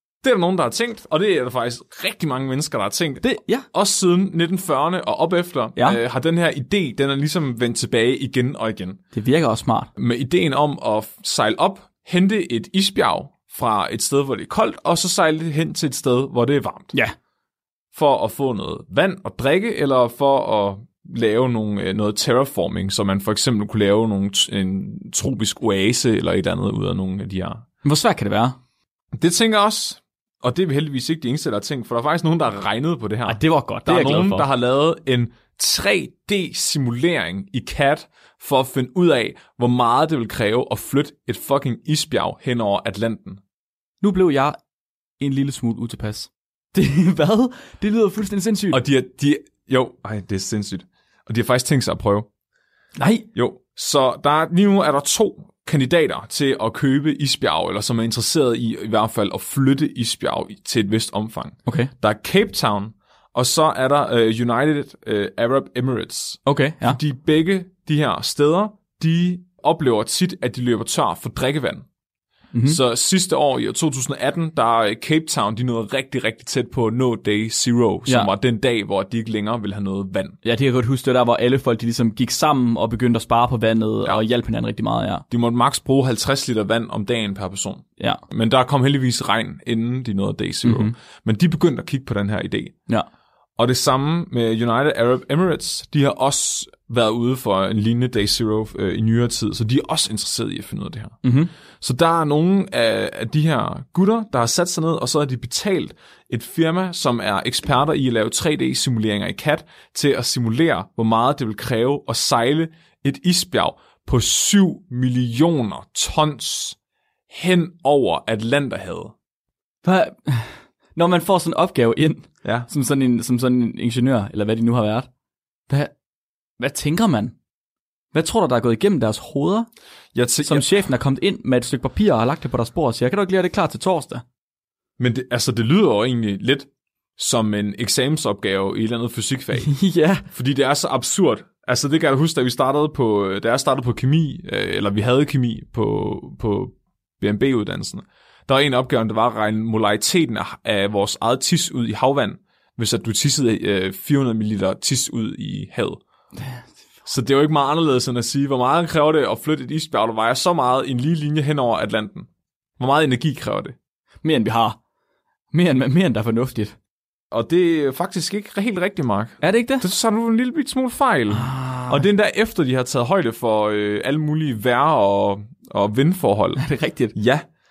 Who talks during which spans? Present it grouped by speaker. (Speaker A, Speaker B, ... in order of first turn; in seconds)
Speaker A: 0.2-9.0, 10.0-16.9, 17.9-27.6, 29.1-43.4, 48.7-52.3, 53.3-71.8, 72.7-80.4, 85.3-92.8, 93.6-101.2, 101.8-116.8, 117.3-119.1, 122.4-122.7, 130.1-130.7, 135.0-139.8, 140.3-156.0, 157.1-162.3, 162.8-163.8, 167.3-177.4
Speaker B: 3.2-3.6, 9.1-9.9, 27.8-28.6, 33.3-34.5, 44.0-44.6, 45.2-48.8, 53.0-53.3, 61.7-61.9, 66.5-67.0, 72.5-72.8, 80.4-85.2, 90.6-90.9, 101.2-101.5, 119.8-125.1, 125.7-125.9, 126.6-127.3, 128.1-129.7, 130.4-134.2, 139.6-140.3, 156.4-156.7, 164.2-164.8, 165.5-166.8, 169.4-169.9, 171.3-172.1, 176.6-177.1